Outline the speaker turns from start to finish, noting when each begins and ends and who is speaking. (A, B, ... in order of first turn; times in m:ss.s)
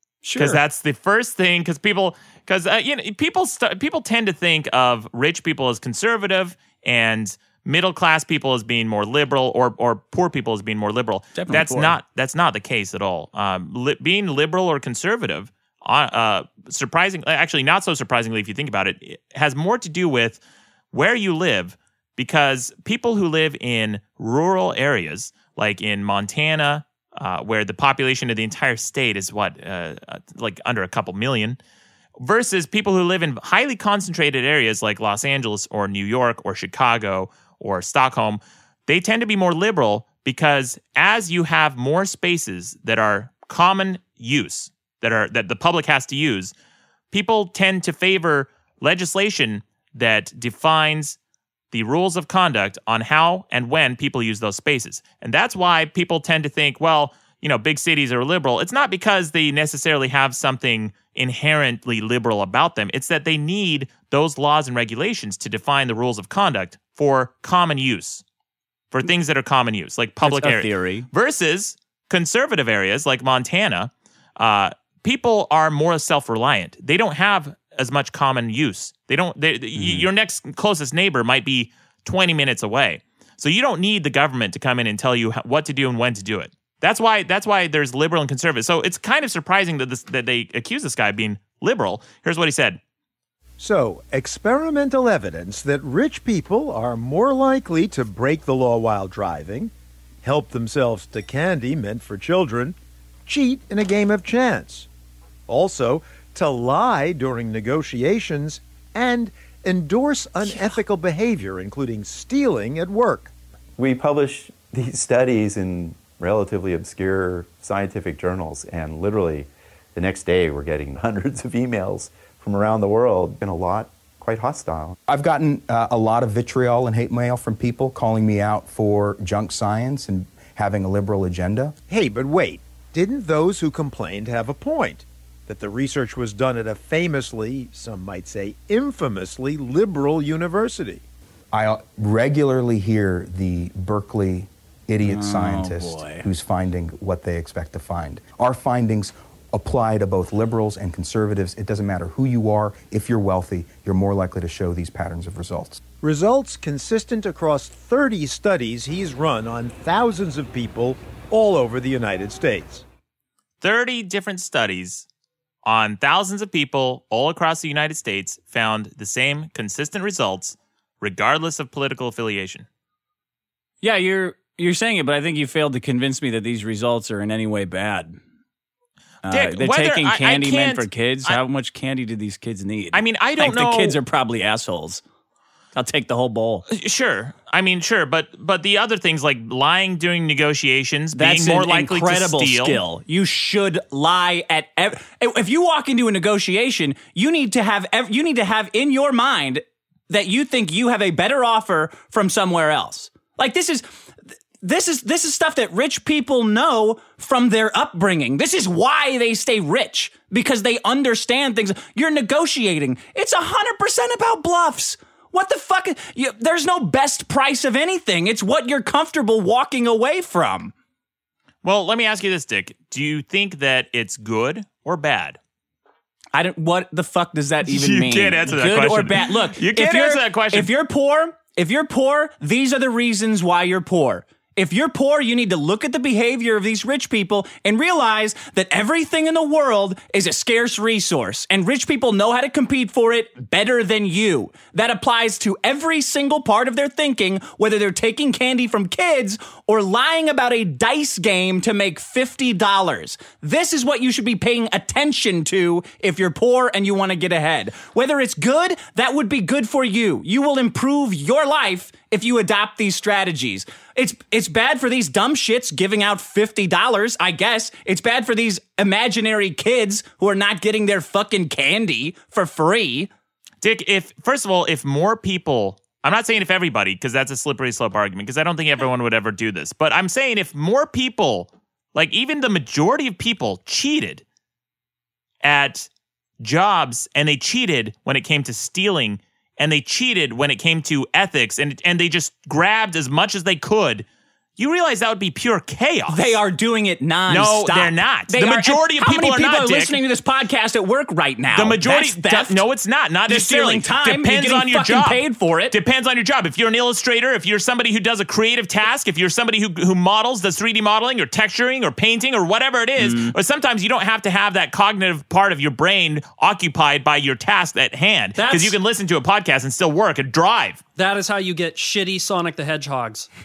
0:00.2-0:00.6 A
0:00.4-0:31.6 B
0:11.4-0:12.0 A
0:32.2-0:46.5 B
0:47.1-0:51.2 B
0:51.7-1:08.2 B
1:08.9-1:32.8 B
1:10.2-1:11.1 A
1:19.8-1:20.1 A
1:33.6-1:39.7 C
1:40.2-1:44.9 C
1:45.5-1:53.3 C
1:53.8-2:05.0 D
2:05.1-2:11.8 E
2:11.9-2:21.0 C
2:21.5-2:35.8 E
2:25.0-2:26.3 A
2:36.0-2:42.8 C
2:43.6-2:45.1 B
2:45.6-2:52.7 B
2:53.8-2:58.2 A
2:59.2-3:05.0 A
2:59.3-3:01.4 B
3:02.9-3:04.0 B
3:05.8-3:06.7 A
3:06.7-3:12.8 B
3:11.1-3:23.8 A
3:24.6-3:40.7 A
3:41.6-3:45.4 B
3:46.3-4:33.1 A
3:47.6-3:50.7 B
4:33.6-4:44.2 B
4:45.4-4:45.9 B
4:46.4-4:54.1 B
4:54.6-4:56.4 B
4:56.1-5:02.6 A
4:57.3-5:00.0 B
5:01.5-5:20.8 B
5:03.3-5:05.8 A
5:13.0-5:13.4 A
5:18.4-5:18.8 F
5:21.0-5:23.3 F